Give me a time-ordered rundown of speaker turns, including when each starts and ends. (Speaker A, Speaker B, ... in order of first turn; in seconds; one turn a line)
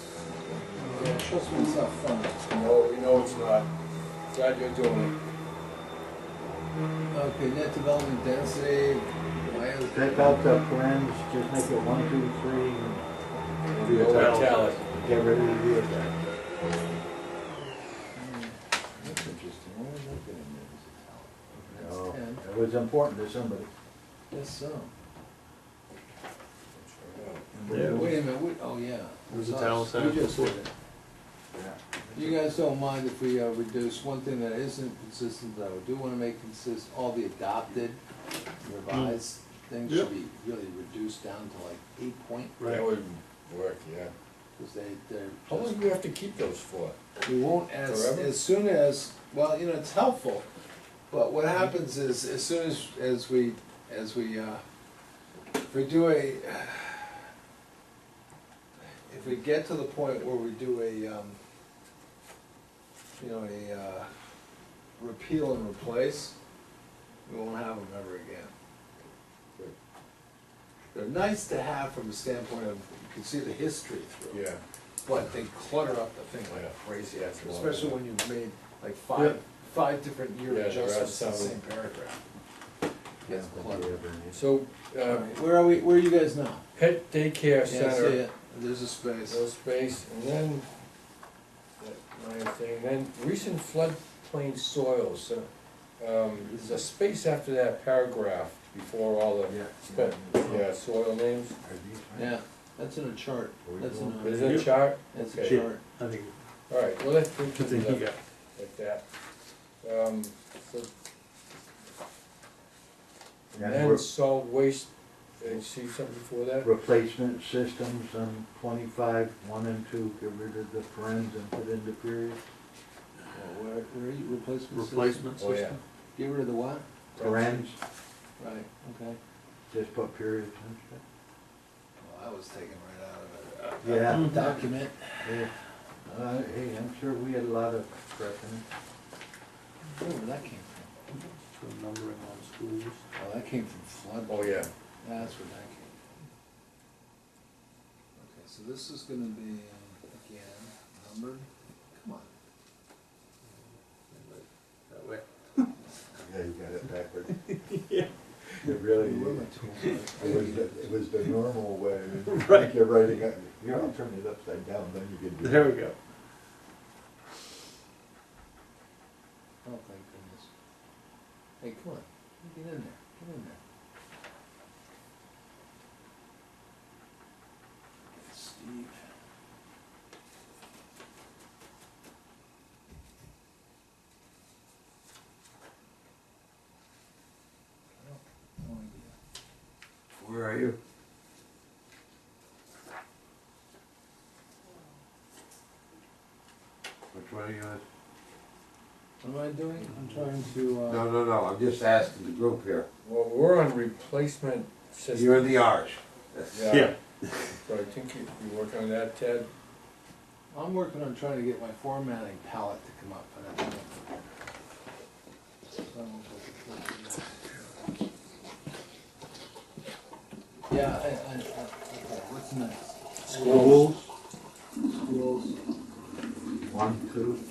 Speaker A: 0.8-2.4
Speaker B: 2.5-3.7
Speaker B: 4.3-5.2
Speaker A: 7.1-10.6
Speaker C: 9.9-13.2
Speaker B: 13.7-14.8
Speaker C: 13.8-16.2
Speaker D: 14.1-14.8
Speaker A: 18.1-19.2
Speaker C: 19.0-23.7
Speaker A: 21.6-22.4
Speaker A: 24.3-24.9
Speaker B: 26.7-27.5
Speaker C: 27.5-28.2
Speaker D: 27.7-28.0
Speaker A: 27.7-30.7
Speaker D: 29.3-30.6
Speaker C: 31.5-31.8
Speaker A: 32.1-38.0
Speaker A: 38.6-42.6
Speaker D: 38.9-39.2
Speaker D: 42.6-42.9
Speaker B: 42.6-44.1
Speaker A: 44.6-45.8
Speaker B: 45.5-47.0
Speaker A: 47.2-50.5
Speaker B: 47.9-48.3
Speaker A: 51.1-54.6
Speaker A: 55.6-57.3
Speaker A: 59.1-61.4
Speaker A: 63.2-64.1
Speaker A: 65.0-66.4
Speaker A: 67.3-68.5
Speaker A: 70.9-74.5
Speaker B: 74.3-74.6
Speaker A: 75.0-82.2
Speaker B: 76.5-78.0
Speaker B: 80.5-81.6
Speaker A: 83.2-84.0
Speaker C: 83.3-84.4
Speaker B: 84.3-85.3
Speaker A: 85.0-86.7
Speaker B: 86.8-88.2
Speaker A: 87.7-89.4
Speaker B: 89.3-90.7
Speaker B: 91.8-101.6
Speaker A: 96.5-96.8
Speaker C: 99.5-100.7
Speaker C: 101.6-102.3
Speaker A: 102.2-104.6
Speaker C: 103.6-104.5
Speaker B: 104.2-105.6
Speaker D: 104.4-104.8
Speaker A: 105.1-105.8
Speaker D: 105.4-106.3
Speaker B: 106.7-109.0
Speaker D: 107.5-108.2
Speaker B: 109.8-110.9
Speaker C: 113.5-114.1
Speaker B: 113.5-116.7
Speaker C: 116.6-122.4
Speaker A: 123.3-125.5
Speaker D: 124.7-125.8
Speaker B: 125.4-125.8
Speaker A: 126.2-126.8
Speaker B: 127.2-127.7
Speaker C: 127.2-127.8
Speaker A: 128.4-129.2
Speaker C: 129.7-131.0
Speaker A: 132.0-135.4
Speaker C: 133.8-134.6
Speaker D: 134.1-134.5
Speaker C: 135.2-135.5
Speaker C: 136.1-138.6
Speaker A: 139.8-140.9
Speaker D: 141.2-143.0
Speaker A: 143.2-146.0
Speaker B: 144.3-144.7
Speaker A: 148.2-152.3
Speaker D: 154.1-155.6
Speaker C: 156.2-157.6
Speaker D: 157.7-158.1
Speaker C: 158.6-165.8
Speaker A: 158.8-160.7
Speaker D: 162.2-163.2
Speaker D: 165.4-166.0
Speaker A: 169.6-170.5
Speaker A: 171.6-173.6
Speaker A: 178.2-179.0
Speaker A: 188.0-189.2
Speaker E: 190.2-190.8
Speaker E: 197.1-197.8
Speaker A: 199.2-201.1
Speaker E: 200.9-202.9
Speaker B: 203.0-205.6
Speaker E: 205.1-206.7
Speaker B: 206.5-207.0
Speaker D: 206.6-207.6
Speaker B: 207.7-209.5
Speaker A: 210.5-213.9
Speaker A: 215.9-217.7
Speaker A: 220.7-223.8
Speaker C: 223.3-224.1
Speaker D: 223.4-223.8
Speaker A: 224.8-225.6
Speaker C: 226.7-227.4